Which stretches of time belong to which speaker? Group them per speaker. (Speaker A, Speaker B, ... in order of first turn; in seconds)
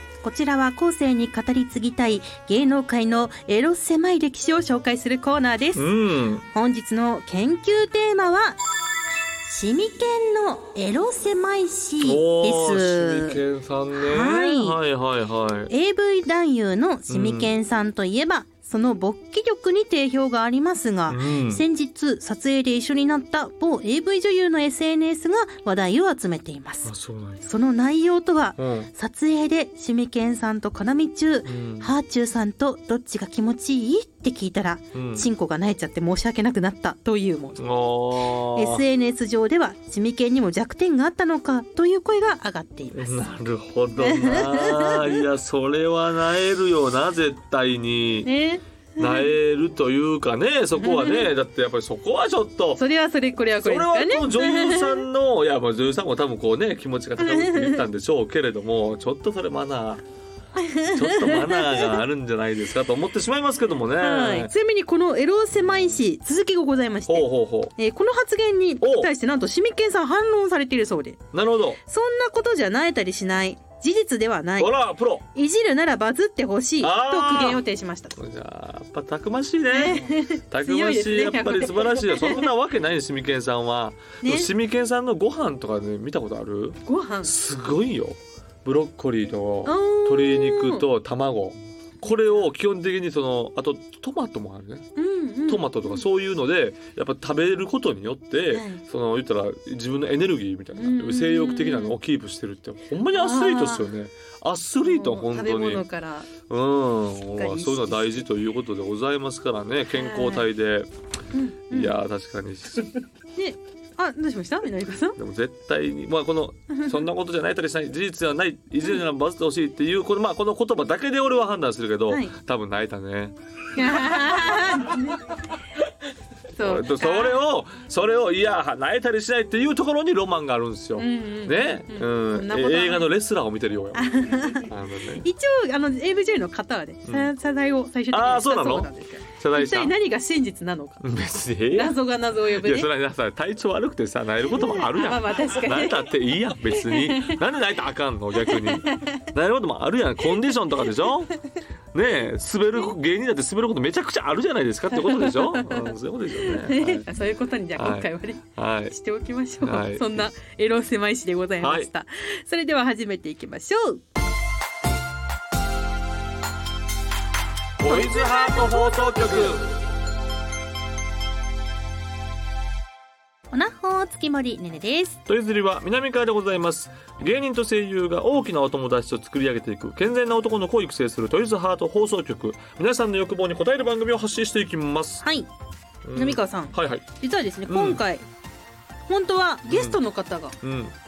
Speaker A: 0.2-5.8, 6.5-8.6, 9.5-13.4, 13.9-14.8, 15.7-26.9, 27.4-37.6, 38.5-43.3, 44.0-45.2, 48.2-49.3, 50.8-51.3, 52.8-55.0, 57.2-57.8, 60.6-62.0, 64.0-71.2, 71.9-74.7, 75.3-78.2, 79.7-82.5, 84.2-84.5, 86.8-87.3, 89.7-90.8, 92.0-92.4, 95.0-96.0, 98.5-98.8, 100.8-102.0, 103.0-103.9, 104.8-106.3, 107.2-108.3, 109.9-110.5, 111.3-112.0, 113.4-115.2, 116.7-117.0, 123.7-125.4, 126.6-127.4, 131.0-133.1, 133.9-141.0, 141.7-142.9, 144.5-147.4, 148.3-149.2, 154.9-164.0, 167.8-169.6, 173.5-175.2, 185.2-185.5, 186.2-188.2, 189.1-190.6
Speaker B: 5.8-6.5, 12.0-15.7, 17.1-17.5, 21.1-21.6, 26.8-27.4, 28.6-28.9, 31.4-31.9, 34.9-35.3, 37.6-38.8, 42.9-48.3, 49.0-52.8, 53.6-60.0, 60.8-64.5, 67.1-67.7, 68.8-69.1, 71.3-71.8, 74.6-75.2, 76.8-77.6, 78.1-94.9, 95.5-105.8, 106.5-110.9, 111.7-112.9, 115.2-123.4, 126.6-135.2, 137.1-137.3, 138.1-139.9, 141.0-141.9, 142.5-151.3, 151.9-157.1, 157.8-158.9, 159.6-160.3, 161.6-161.9, 167.8-169.8, 175.3-185.2, 186.0-187.1, 187.7-188.0, 189.7-190.0, 190.6-190.9